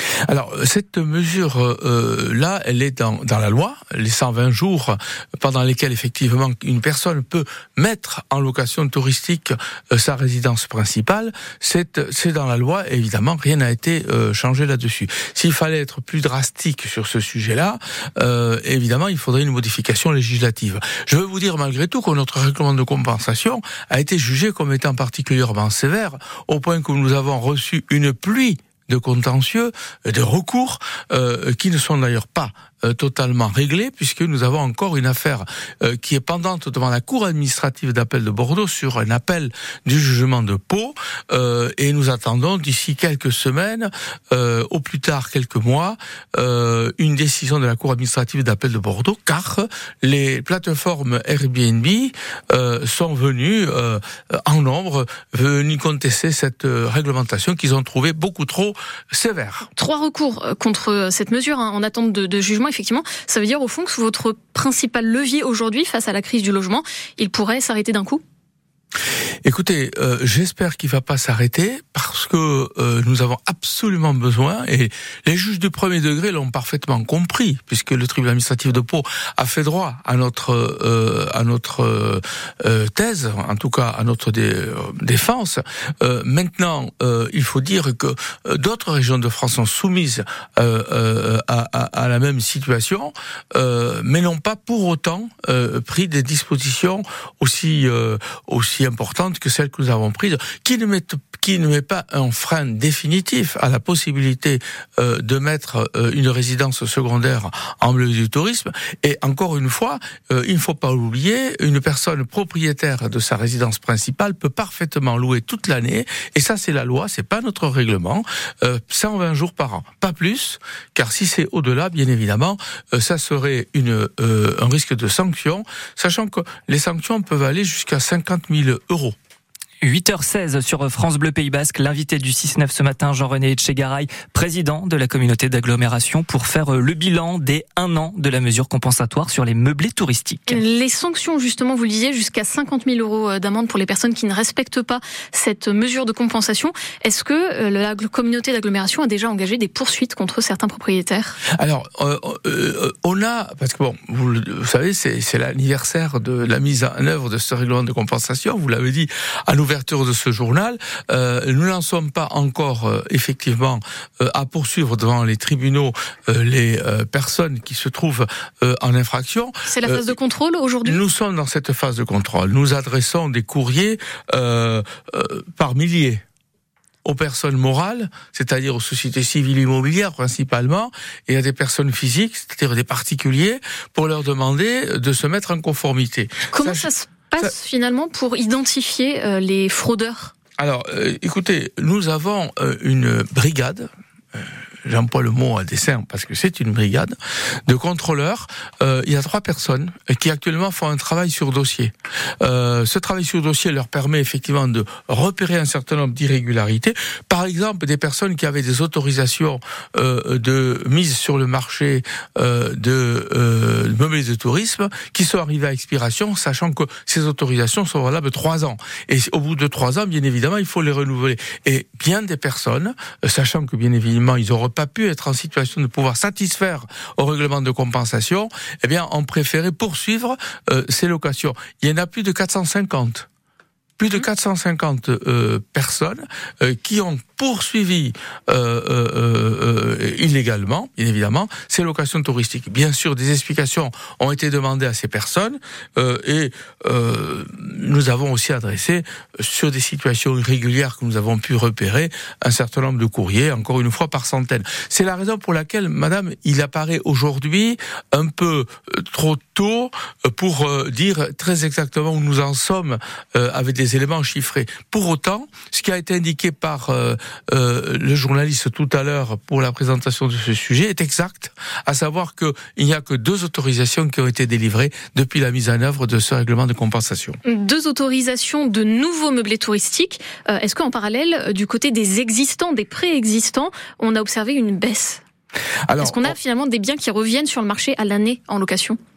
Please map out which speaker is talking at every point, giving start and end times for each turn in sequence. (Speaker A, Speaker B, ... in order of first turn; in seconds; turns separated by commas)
Speaker A: 0.3-59.7, Speaker B: 59.8-68.2, Speaker A: 69.4-129.2, Speaker C: 129.8-140.6, Speaker B: 140.5-151.4, Speaker A: 151.6-170.1, Speaker B: 169.7-171.0, Speaker A: 170.8-176.2, Speaker A: 177.0-186.9, Speaker B: 186.5-190.3, Speaker A: 190.6-197.2, Speaker A: 197.7-233.3, Speaker A: 234.0-277.4, Speaker B: 277.4-285.2, Speaker A: 285.9-286.4, Speaker B: 286.0-289.0